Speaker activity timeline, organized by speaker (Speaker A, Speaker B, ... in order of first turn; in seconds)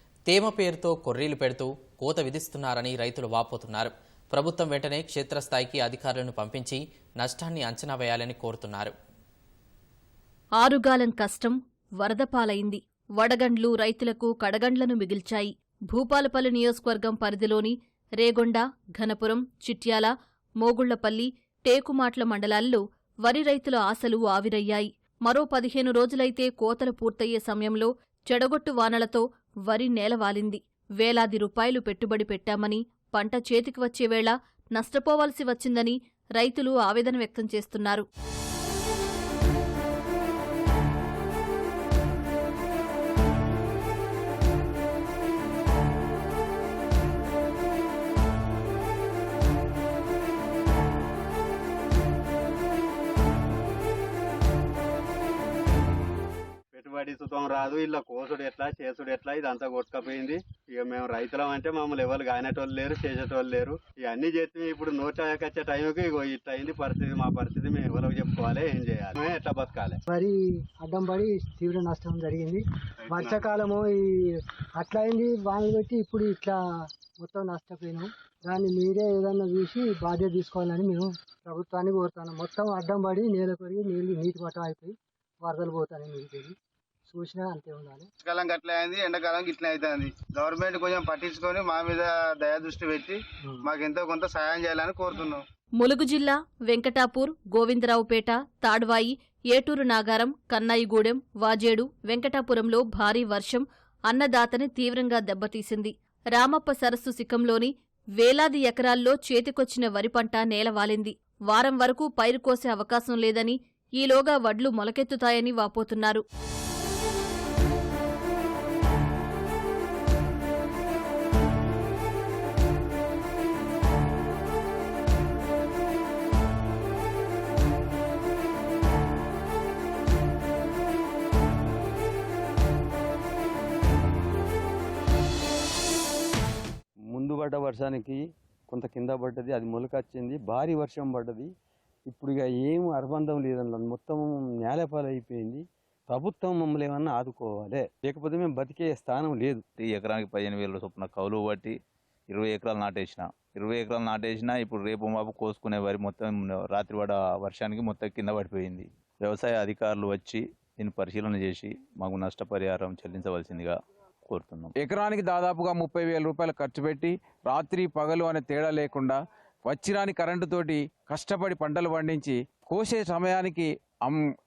Speaker A: 0.3-8.9
Speaker B: 10.6-38.1, 95.8-116.2
Speaker C: 56.7-70.0, 73.1-73.4
Speaker D: 70.1-76.6, 77.2-86.5, 87.1-88.1
Speaker E: 88.2-95.4
Speaker F: 137.1-141.5, 142.1-149.6
Speaker G: 149.8-151.7, 152.3-163.8, 164.3-164.7
Speaker H: 164.8-174.2